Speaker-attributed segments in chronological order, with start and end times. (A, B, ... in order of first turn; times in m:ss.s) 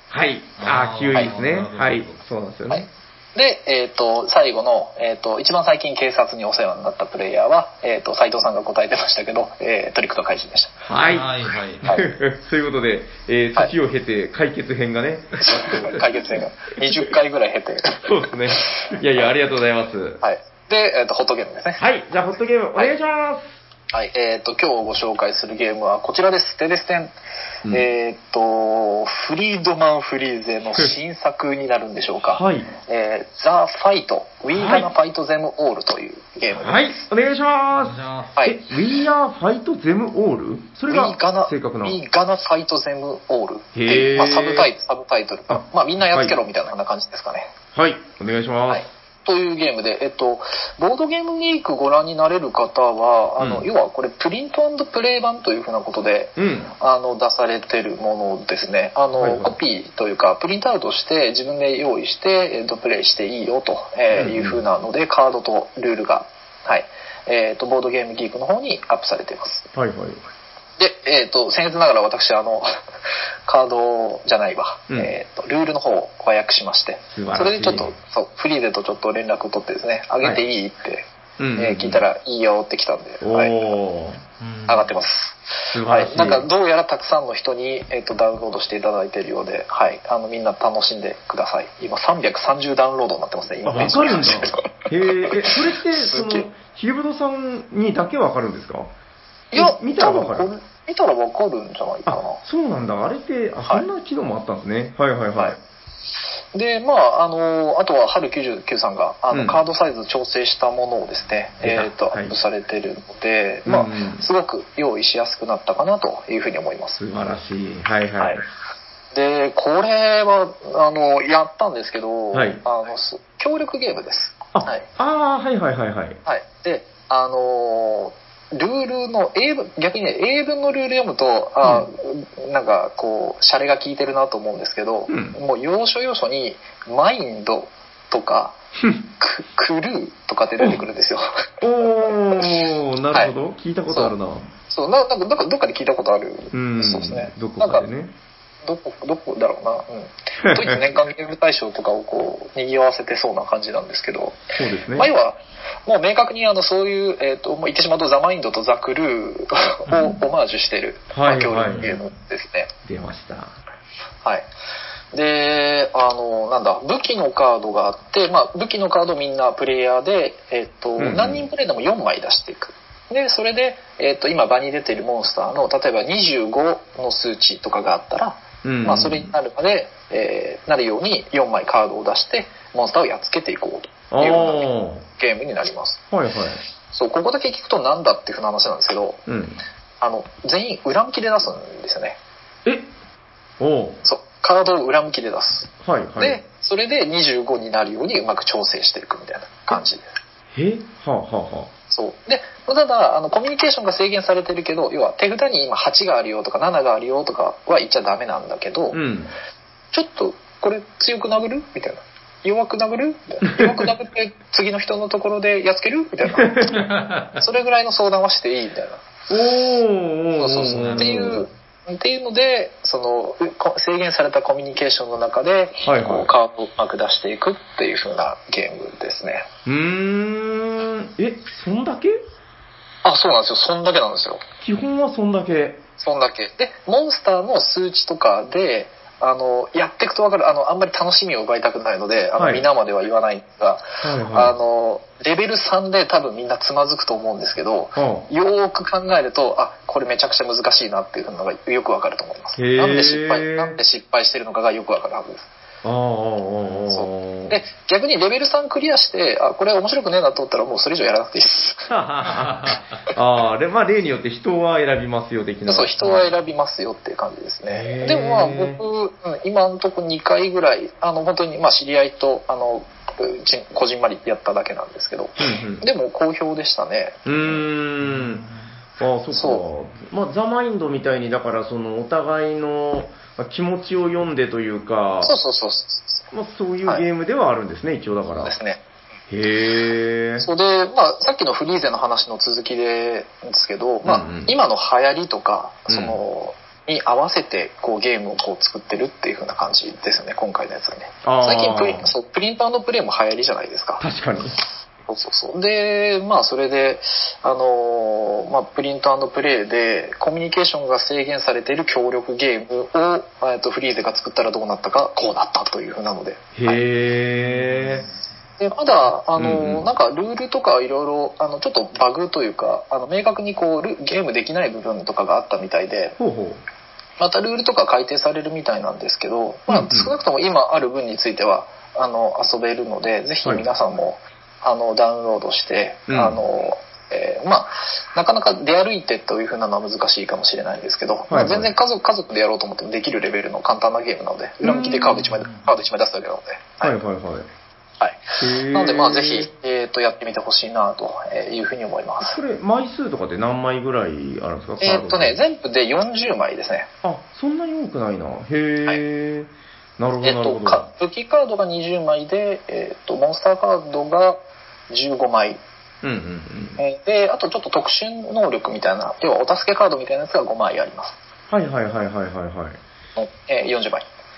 0:00.1-0:02.9 A
0:00.6-0:02.2 B
0:02.7-0:10.8 C
0:10.8-0:11.3 A
0:11.1-0:12.0 B
0:11.8-0:16.2 A
0:11.8-0:12.2 C
0:15.4-0:19.0 C
0:16.8-0:17.1 A
0:18.0-0:20.2 A
0:20.2-0:21.8 C
0:21.8-0:23.6 A
0:23.9-0:27.1 C
0:27.7-0:37.0 C
0:32.3-0:32.7 A
0:34.5-0:34.9 A
0:36.5-0:42.0 A
0:37.7-0:38.4 B
0:40.9-0:47.5 C
0:43.7-0:44.7 A
0:45.5-0:46.4 A
0:47.7-0:48.9 A
0:48.7-1:09.7 C
0:53.4-0:53.7 A
0:56.4-0:56.7 A
0:59.1-0:59.5 A
1:04.1-1:04.6 A
1:09.7-1:10.2 A
1:10.8-1:12.7 C
1:13.4-1:23.6 C
1:17.1-1:17.9 A
1:21.4-1:22.0 A
1:23.2-1:24.2 A
1:24.4-1:24.9 B
1:24.7-1:34.7 C
1:25.7-1:26.5 A
1:33.6-1:38.9 A
1:35.2-1:36.4 C
1:39.5-1:42.4 C
1:39.5-1:40.5 A
1:42.1-1:45.6 A
1:46.5-1:57.0 C
1:49.3-1:49.6 A
1:51.6-1:52.3 A
1:53.6-1:54.2 A
1:57.0-1:58.4 A
1:59.1-2:04.9 C
2:02.3-2:02.6 A
2:04.5-2:06.2 A
2:06.2-2:18.6 C
2:11.6-2:11.9 A
2:15.1-2:15.4 A
2:19.2-2:21.4 C
2:21.6-2:24.5 A
2:22.1-2:22.5 C
2:24.7-2:27.8 C
2:26.5-2:28.1 A
2:28.6-2:42.7 C
2:30.4-2:31.0 A
2:34.5-2:35.1 A
2:41.1-2:42.0 A
2:42.8-2:43.6 A
2:45.1-3:06.0 C
2:51.0-2:51.5 A
2:58.6-2:59.3 A
3:04.1-3:05.0 A
3:06.1-3:06.6 A
3:06.9-3:09.2 C
3:09.3-3:09.6 A
3:10.0-3:12.2 C
3:12.6-3:12.9 A
3:13.6-3:14.0 A
3:14.0-3:20.2 C
3:15.8-3:16.4 A
3:20.5-3:21.7 A
3:21.9-3:29.0 C
3:28.9-3:29.3 A
3:29.9-3:36.6 C
3:33.5-3:33.9 A
3:36.3-3:36.8 A
3:36.7-3:37.4 B
3:37.4-3:39.0 C
3:39.3-3:41.4 A
3:40.4-3:49.5 C
3:40.7-3:41.3 B
3:45.8-3:46.3 A
3:49.6-3:52.2 A
3:53.0-3:54.4 C
3:54.6-3:55.8 A
3:56.0-4:15.5 C
4:02.4-4:02.6 A
4:04.0-4:04.6 A
4:08.0-4:08.2 A
4:12.6-4:13.8 A
4:15.8-4:17.6 A
4:16.9-4:21.9 C
4:21.9-4:26.3 A
4:22.2-4:23.0 B
4:25.7-4:37.6 C
4:27.7-4:28.8 A
4:35.4-4:35.8 A
4:37.2-4:38.4 A
4:38.0-4:38.7 B
4:39.0-4:45.3 A
4:39.3-4:39.6 C
4:45.2-4:46.2 C
4:46.3-4:48.6 A
4:48.4-4:48.8 C
4:49.3-4:50.5 A
4:50.4-5:04.0 C
4:54.0-4:54.6 A
4:55.9-4:56.2 A
5:01.2-5:02.1 A
5:04.0-5:04.6 A
5:05.1-5:16.8 C
5:16.5-5:18.0 A
5:17.3-5:18.2 B
5:18.6-5:26.2 C
5:19.3-5:19.8 A
5:26.2-5:26.6 A
5:27.2-5:47.0 C
5:29.7-5:30.1 A
5:36.1-5:36.4 A
5:41.3-5:41.7 A
5:44.6-5:45.3 A
5:45.1-5:45.8 B
5:46.8-5:47.5 A
5:48.0-5:52.4 C
5:48.4-5:49.5 A
5:52.2-5:55.4 A
5:54.8-5:56.9 C
5:57.0-6:00.9 A
6:00.2-6:05.6 C
6:06.0-6:06.8 A
6:06.8-6:11.2 C
6:11.5-6:12.8 A
6:13.2-6:14.0 C